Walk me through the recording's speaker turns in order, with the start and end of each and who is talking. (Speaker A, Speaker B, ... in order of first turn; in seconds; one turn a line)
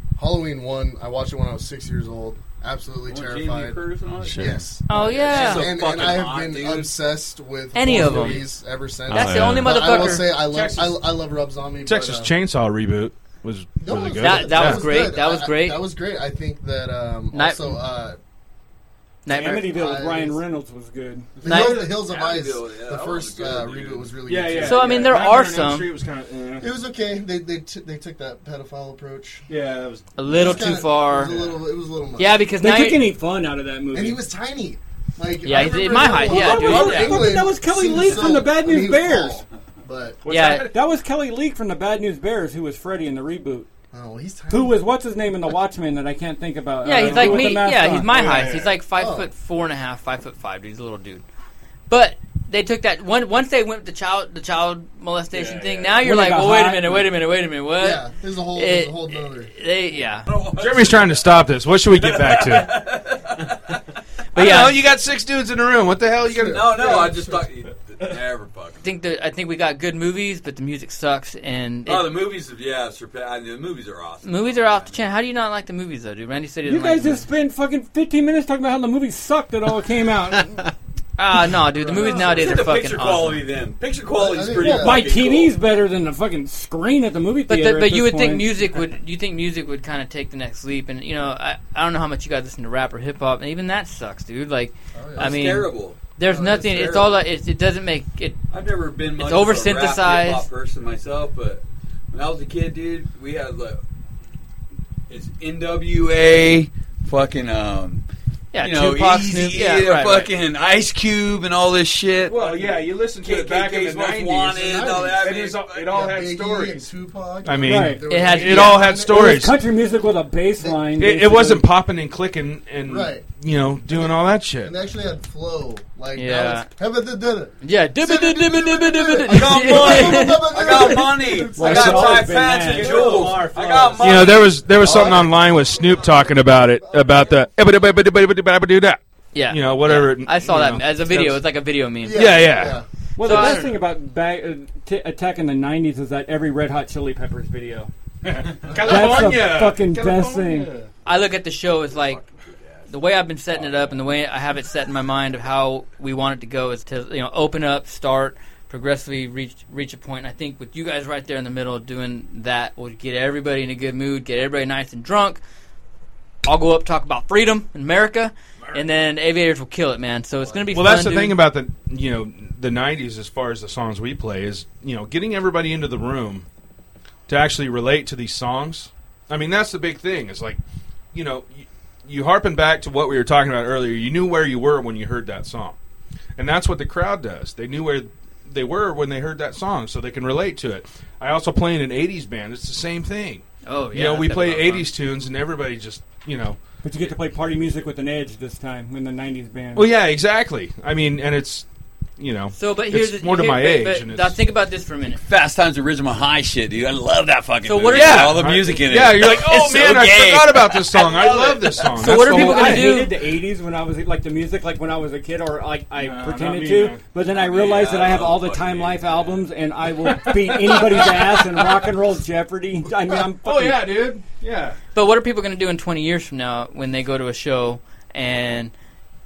Speaker A: 0.2-12.3
Speaker B: 3.0-7.0
Speaker C: 4.2-4.5
Speaker D: 4.9-5.7
Speaker D: 7.7-8.5
Speaker B: 7.9-8.4
Speaker C: 9.1-9.8
Speaker D: 9.1-10.3
Speaker E: 10.5-10.9
Speaker E: 11.9-14.9
Speaker A: 13.8-18.2
Speaker D: 14.2-15.8
Speaker D: 17.3-17.8
Speaker D: 19.2-19.8
Speaker F: 19.3-21.3
Speaker A: 19.4-20.4
Speaker A: 21.4-25.1
Speaker D: 21.4-21.9
Speaker B: 21.5-24.2
Speaker C: 24.3-25.3
Speaker E: 24.3-26.7
Speaker D: 24.6-25.9
Speaker A: 26.6-29.4
Speaker C: 29.5-30.1
Speaker D: 30.2-31.4
Speaker A: 30.2-32.5
Speaker D: 32.2-33.1
Speaker F: 32.6-34.2
Speaker A: 33.9-40.2
Speaker D: 35.4-37.4
Speaker F: 36.2-39.4
Speaker D: 40.3-40.7
Speaker E: 40.3-40.5
Speaker F: 40.5-43.7
Speaker A: 43.9-44.8
Speaker F: 44.5-48.2
Speaker D: 46.8-51.2
Speaker C: 47.0-47.5
Speaker C: 48.1-48.8
Speaker A: 48.9-49.3
Speaker D: 51.9-60.3
Speaker C: 55.3-56.0
Speaker F: 56.0-57.1
Speaker A: 57.8-59.5
Speaker B: 60.3-61.3
Speaker E: 60.6-62.9
Speaker B: 61.9-63.8
Speaker D: 64.3-64.8
Speaker E: 64.3-66.8
Speaker A: 66.2-67.5
Speaker B: 66.5-68.8
Speaker D: 68.8-72.3
Speaker B: 71.9-75.0
Speaker D: 74.2-77.3
Speaker F: 76.7-80.7
Speaker D: 81.2-83.5
Speaker A: 81.8-82.6
Speaker B: 81.9-85.5
Speaker A: 84.1-85.2
Speaker F: 84.6-88.5
Speaker D: 87.5-98.4
Speaker A: 94.9-95.6
Speaker B: 95.2-97.2
Speaker A: 96.3-96.7
Speaker B: 98.5-103.8
Speaker D: 99.2-100.5
Speaker B: 105.1-108.0
Speaker D: 108.5-110.3
Speaker B: 108.6-116.1
Speaker E: 112.2-116.8
Speaker A: 114.5-115.3
Speaker A: 115.9-119.5
Speaker E: 117.4-119.6
Speaker F: 117.6-118.1
Speaker D: 118.1-118.9
Speaker F: 119.0-121.7
Speaker A: 120.6-121.0
Speaker E: 121.0-124.7
Speaker A: 122.8-123.3
Speaker A: 123.9-132.5
Speaker D: 126.1-126.7
Speaker D: 127.6-131.1
Speaker B: 129.2-135.2
Speaker F: 131.6-133.6
Speaker C: 132.7-134.2
Speaker E: 134.0-141.3
Speaker A: 134.8-137.4
Speaker D: 139.3-142.5
Speaker A: 142.0-142.9
Speaker E: 142.1-142.8
Speaker F: 143.2-147.9
Speaker D: 143.2-143.8
Speaker E: 148.3-150.7
Speaker F: 148.8-150.7
Speaker D: 151.1-152.2
Speaker D: 152.9-165.4
Speaker D: 166.4-171.4
Speaker E: 170.7-176.5
Speaker E: 177.3-180.6
Speaker E: 181.1-185.8
Speaker E: 186.4-196.6
Speaker D: 193.7-194.9
Speaker F: 196.8-199.9
Speaker E: 199.7-201.7
Speaker E: 202.2-204.4
Speaker D: 202.6-205.2
Speaker B: 205.1-212.0
Speaker D: 207.6-208.6
Speaker E: 207.9-213.0
Speaker D: 211.9-213.1
Speaker F: 212.3-223.9
Speaker E: 216.0-217.0
Speaker B: 217.3-219.3
Speaker B: 220.8-221.1
Speaker E: 223.4-224.8
Speaker D: 224.9-228.7